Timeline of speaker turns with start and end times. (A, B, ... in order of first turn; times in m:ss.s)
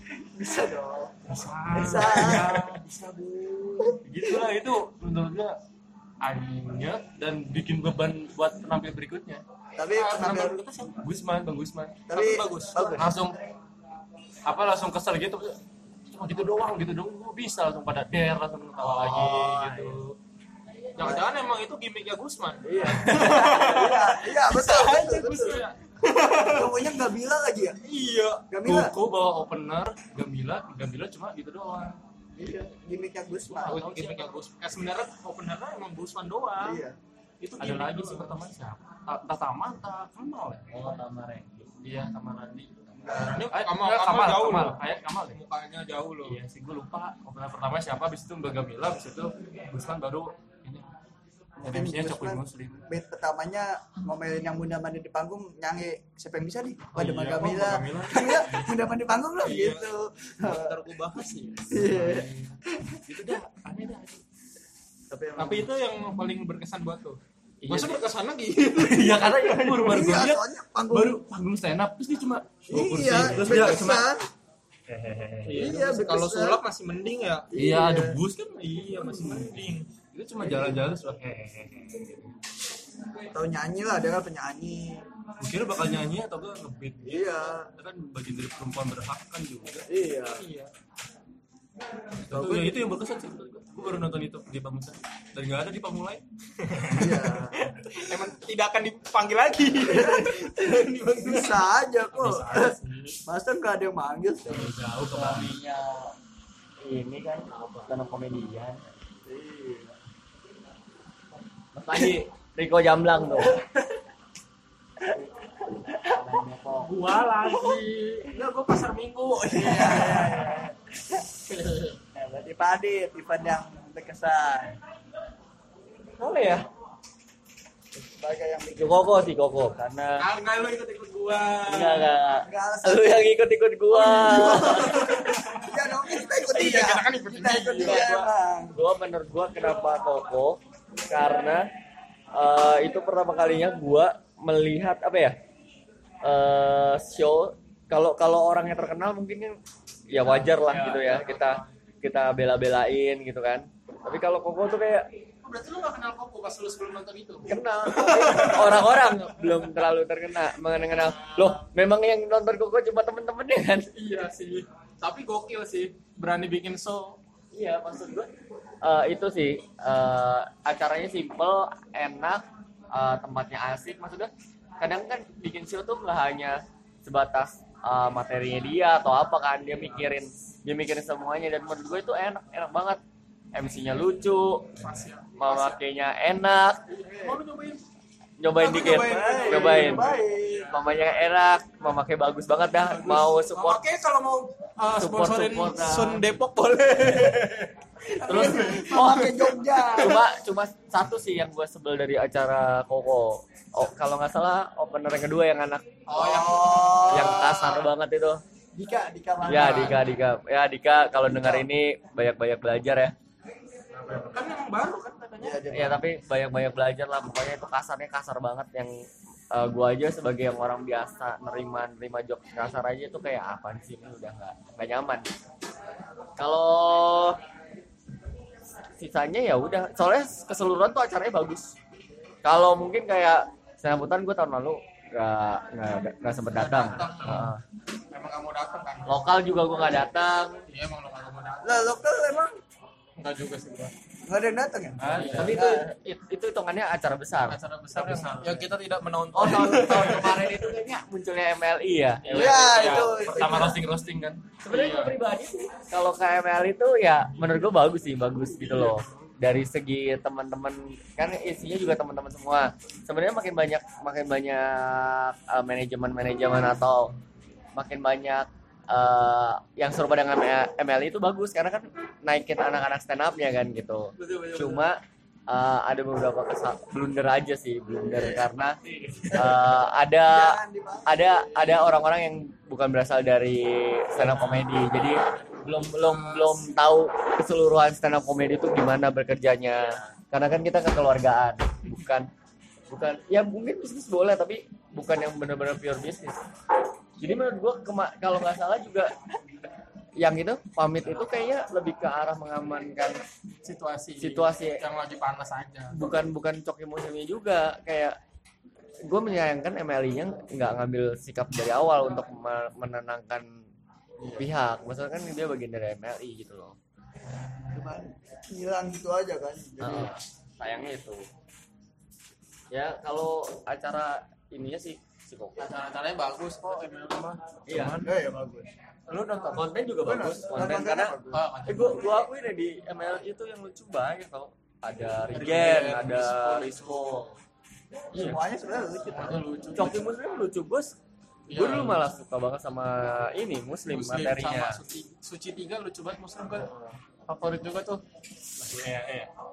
0:00.3-0:01.2 A
0:01.3-0:02.8 B
0:01.3-0:02.9 C
0:01.7-0:02.8 A
0:03.4-0:04.0 A
0:04.0-0:05.6 C
0:06.2-0:09.4 C
0:09.8-0:10.6 A
0:09.9-0:11.0 B
0:11.0-0:12.1 C
0:12.1-0:13.1 A
0:12.1-0:13.1 B
0:12.9-0:13.4 C
0:14.5-0:15.6 C
0:16.1-0:20.2 C
0:18.8-0:19.9 D
0:21.0-0:26.8 B
0:21.0-0:21.3 A
0:22.6-0:25.7 A
0:26.3-0:27.8 A
0:27.9-0:32.0 C
0:28.5-0:28.9 A
0:32.4-0:33.9 A
0:33.6-0:34.4 C
0:33.6-0:36.8 B
0:36.6-0:37.0 A
0:37.4-0:38.4 B
0:37.6-0:41.0 C
0:40.7-0:41.7 D
0:41.8-0:45.4 C
0:43.0-0:43.5 A
0:43.1-0:46.4 B
0:46.2-0:50.9 C
0:51.6-0:52.8 C
0:51.7-1:00.8 A
0:57.0-0:58.7 B
0:57.0-0:58.6 C
0:59.4-0:59.9 B
1:00.4-1:02.5 B
1:01.7-1:03.0 A
1:03.1-1:04.2 C
1:05.1-1:05.7 A
1:05.4-1:10.2 B
1:07.6-1:08.0 C
1:08.8-1:14.1 C
1:09.9-1:11.2 A
1:12.7-1:14.3 A
1:13.1-1:14.0 B
1:14.9-1:15.7 C
1:15.4-1:17.5 B
1:15.5-1:16.6 A
1:17.5-1:18.2 A
1:17.6-1:22.2 C
1:18.6-1:19.9 B
1:20.4-1:20.8 A
1:23.3-1:25.0 A
1:25.4-1:29.8 C
1:27.0-1:27.7 A
1:29.9-1:30.4 A
1:30.3-1:30.7 B
1:32.2-1:37.2 C
1:32.3-1:32.8 A
1:36.9-1:37.6 A
1:38.0-1:43.2 B
1:39.8-1:44.7 A
1:44.5-1:45.5 C
1:45.0-1:46.2 D
1:46.8-1:48.8 D
1:49.2-1:49.9 A
1:51.8-1:53.6 D
1:55.9-1:56.9 D
1:56.8-2:00.6 B
1:59.5-2:00.8 A
2:01.5-2:02.0 B
2:02.2-2:04.8 A
2:06.2-2:06.7 D
2:08.0-2:09.1 A
2:08.8-2:10.2 D
2:10.2-2:12.2 B
2:11.6-2:15.2 D
2:12.4-2:13.3 A
2:13.9-2:18.8 A
2:14.2-2:18.1 B
2:17.8-2:21.7 D
2:22.3-2:25.4 D
2:26.2-2:29.6 D
2:30.1-2:35.1 D
2:30.5-2:31.7 B
2:35.4-2:39.3 B
2:37.5-2:43.9 D
2:40.9-2:41.6 B
2:43.9-2:47.2 B
2:47.5-2:48.3 D
2:48.8-3:03.0 D
3:03.5-3:04.8 D
3:04.8-3:05.8 B
3:05.4-3:06.8 D
3:07.0-3:07.8 B
3:07.1-3:07.4 A
3:08.4-3:10.1 D
3:08.6-3:10.7 A
3:08.6-3:10.8 B
3:10.7-3:13.8 D
3:12.8-3:19.6 B
3:15.0-3:16.2 D
3:18.0-3:20.2 A
3:18.2-3:19.4 D
3:19.9-3:25.9 D
3:26.1-3:27.9 B
3:26.1-3:27.7 A
3:27.1-3:28.4 D
3:28.7-3:30.0 A
3:29.4-3:33.1 D
3:31.2-3:31.7 A
3:33.9-3:35.7 B
3:35.4-3:36.0 A
3:35.7-3:38.9 D
3:39.5-3:45.3 D
3:46.4-3:47.4 D
3:49.0-3:51.7 D
3:52.4-3:57.6 D
3:56.5-3:57.5 B
3:57.2-3:57.5 C
3:58.1-3:59.2 B
3:59.1-4:00.6 D
4:00.7-4:02.0 B
4:01.6-4:02.5 A
4:03.2-4:03.9 B
4:04.3-4:05.9 A
4:05.0-4:05.6 C
4:05.0-4:05.6 B
4:05.2-4:07.6 D
4:07.5-4:10.5 B
4:07.9-4:08.7 C
4:09.3-4:13.4 D
4:12.3-4:14.4 C
4:12.3-4:13.2 B
4:12.3-4:13.8 A
4:14.6-4:27.2 D
4:14.7-4:15.2 B
4:18.5-4:19.3 B
4:27.8-4:38.8 D
4:34.2-4:34.8 C
4:38.2-4:38.4 A
4:39.1-4:39.4 C
4:39.3-4:52.3 D
4:40.2-4:41.9 A
4:44.2-4:46.6 B
4:52.9-4:56.4 D
4:57.2-4:59.1 D
5:00.2-5:03.2 D
5:03.6-5:06.0 B
5:04.2-5:04.8 D
5:05.9-5:08.2 D
5:09.0-5:13.5 D
5:14.2-5:14.4 A
5:14.4-5:16.8 D
5:17.7-5:20.1 A
5:19.8-5:21.2 D
5:22.7-5:25.6 D
5:25.6-5:28.1 B
5:27.7-5:28.1 D
5:28.0-5:28.7 A
5:29.1-5:29.7 B
5:29.5-5:37.3 D
5:30.0-5:31.4 A
5:31.3-5:32.1 B
5:35.3-5:37.3 B
5:38.1-5:39.4 A
5:39.1-5:40.1 B
5:39.7-5:41.0 D
5:41.5-5:42.1 B
5:41.5-5:44.8 D
5:43.9-5:46.7 B
5:47.3-5:48.0 B
5:48.6-5:49.3 C